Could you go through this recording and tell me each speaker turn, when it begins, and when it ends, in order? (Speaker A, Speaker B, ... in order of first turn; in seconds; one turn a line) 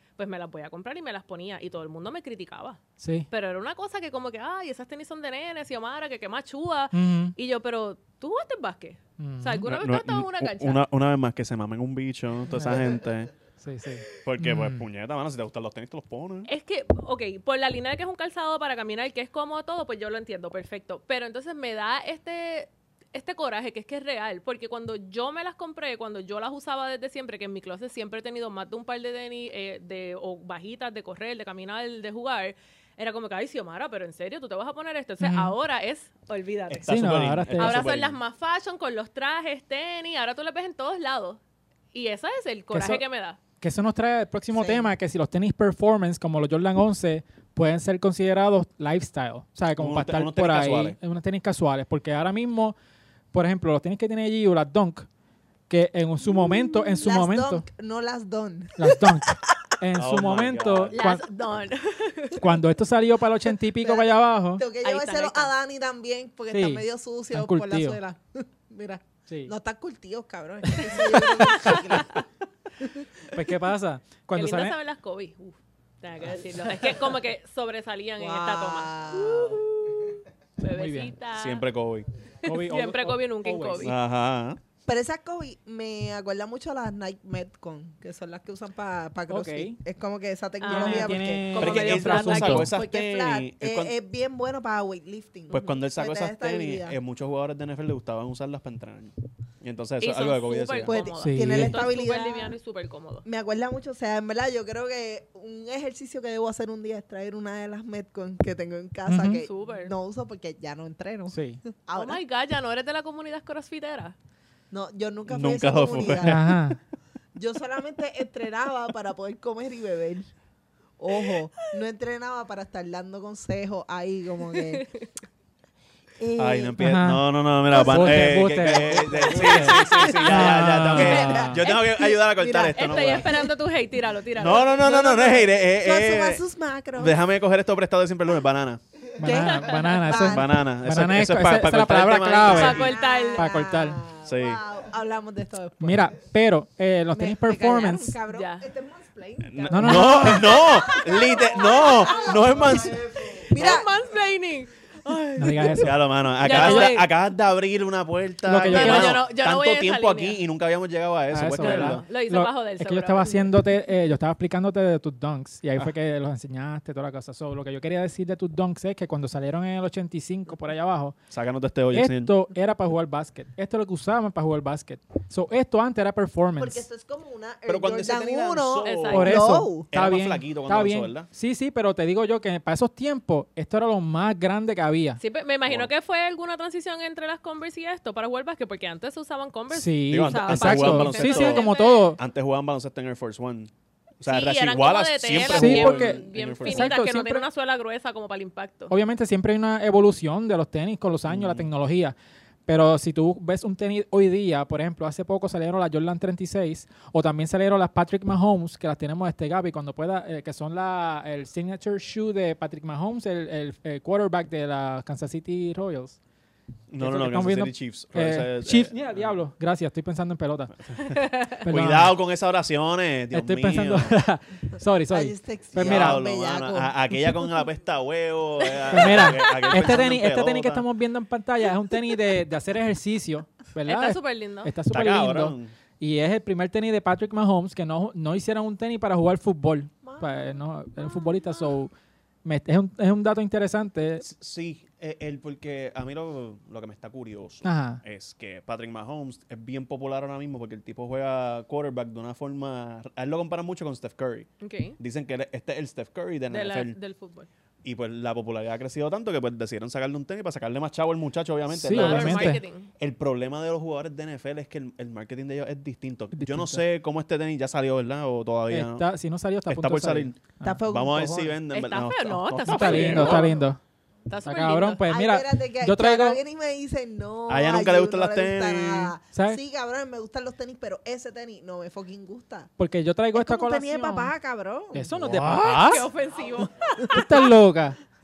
Speaker A: 0.2-10.8
Speaker B: 3.0-3.3
Speaker B: 6.9-7.3
Speaker B: 9.2-9.7
Speaker C: 9.7-13.3
Speaker B: 12.6-12.8
Speaker B: 13.6-14.8
Speaker C: 14.2-16.5
Speaker A: 16.5-36.9
Speaker B: 35.2-35.5
Speaker C: 36.7-38.2
Speaker B: 36.9-37.8
Speaker A: 37.6-41.4
Speaker A: 41.9-43.4
Speaker B: 42.7-43.0
Speaker B: 43.6-52.7
Speaker C: 49.8-51.0
Speaker B: 53.3-55.1
Speaker B: 55.7-57.7
Speaker D: 56.2-59.6
Speaker B: 58.8-61.2
Speaker C: 60.0-60.9
Speaker A: 60.9-62.4
Speaker B: 62.4-64.6
Speaker D: 63.8-72.2
Speaker A: 64.8-65.5
Speaker B: 66.5-68.0
Speaker B: 69.3-69.5
Speaker A: 70.8-72.2
Speaker B: 73.3-74.8
Speaker A: 74.3-81.7
Speaker D: 76.6-77.0
Speaker D: 78.2-80.1
Speaker B: 80.6-81.1
Speaker C: 81.3-82.1
Speaker A: 82.4-83.9
Speaker B: 82.4-83.9
Speaker C: 83.8-84.6
Speaker D: 84.8-91.9
Speaker B: 89.3-89.8
Speaker A: 90.6-92.7
Speaker B: 90.7-92.7
Speaker C: 91.6-93.9
Speaker D: 92.4-97.0
Speaker C: 95.5-100.9
Speaker A: 100.0-103.2
Speaker D: 100.8-102.5
Speaker B: 101.2-101.8
Speaker D: 103.2-112.2
Speaker B: 109.1-109.4
Speaker A: 109.4-109.9
Speaker B: 111.3-111.6
Speaker A: 111.9-114.1
Speaker D: 114.7-116.5
Speaker C: 115.3-116.8
Speaker B: 116.2-116.8
Speaker D: 117.3-120.3
Speaker D: 121.0-124.9
Speaker A: 124.6-125.0
Speaker D: 126.2-126.8
Speaker C: 126.4-133.3
Speaker B: 126.8-131.6
Speaker D: 127.7-133.5
Speaker A: 129.3-131.2
Speaker A: 132.7-134.8
Speaker C: 134.3-136.4
Speaker D: 134.5-137.2
Speaker C: 137.0-138.8
Speaker B: 139.2-144.0
Speaker D: 139.2-140.6
Speaker A: 139.3-140.1
Speaker C: 140.2-143.0
Speaker A: 142.4-143.5
Speaker D: 142.5-146.1
Speaker C: 144.2-144.6
Speaker B: 145.8-148.2
Speaker D: 147.1-153.9
Speaker A: 148.3-148.7
Speaker C: 149.4-153.8
Speaker B: 149.7-150.4
Speaker A: 149.8-157.1
Speaker B: 155.3-157.0
Speaker C: 155.7-162.0
Speaker B: 158.4-159.2
Speaker A: 158.6-160.4
Speaker B: 161.3-171.2
Speaker A: 161.6-163.5
Speaker C: 171.3-172.3
Speaker B: 171.9-176.9
Speaker D: 176.6-179.9
Speaker C: 177.7-179.4
Speaker A: 178.8-179.4
Speaker B: 179.1-185.2
Speaker C: 179.9-181.3
Speaker A: 185.2-192.1
Speaker B: 189.7-192.2
Speaker C: 190.1-196.9
Speaker A: 194.2-198.9
Speaker B: 195.4-197.4
Speaker B: 198.9-202.1
Speaker C: 201.3-201.7
Speaker B: 202.7-216.2
Speaker C: 216.9-219.3
Speaker B: 217.0-220.9
Speaker C: 220.9-224.2
Speaker A: 221.1-221.4
Speaker B: 221.6-222.1
Speaker B: 223.3-226.2
Speaker D: 225.1-227.5
Speaker C: 225.8-230.8
Speaker A: 228.7-229.9
Speaker B: 228.9-241.9
Speaker A: 233.8-234.7
Speaker C: 234.9-235.7
Speaker D: 240.0-241.7
Speaker B: 242.4-244.2
Speaker C: 244.2-256.9
Speaker B: 247.6-248.0
Speaker A: 254.6-255.0
Speaker A: 256.5-257.5
Speaker C: 257.8-269.1
Speaker B: 261.7-262.6
Speaker A: 261.9-262.9
Speaker B: 266.3-266.8
Speaker B: 268.7-270.8
Speaker C: 269.7-273.6
Speaker D: 270.6-271.6
Speaker A: 271.7-273.6
Speaker B: 272.7-273.8
Speaker A: 274.3-275.0
Speaker B: 274.4-276.4
Speaker D: 275.1-282.7
Speaker C: 277.5-279.1
Speaker B: 279.3-279.6
Speaker B: 282.8-284.3
Speaker D: 283.3-285.4
Speaker B: 284.9-286.1
Speaker C: 285.1-285.9
Speaker A: 285.6-287.5
Speaker B: 287.1-288.0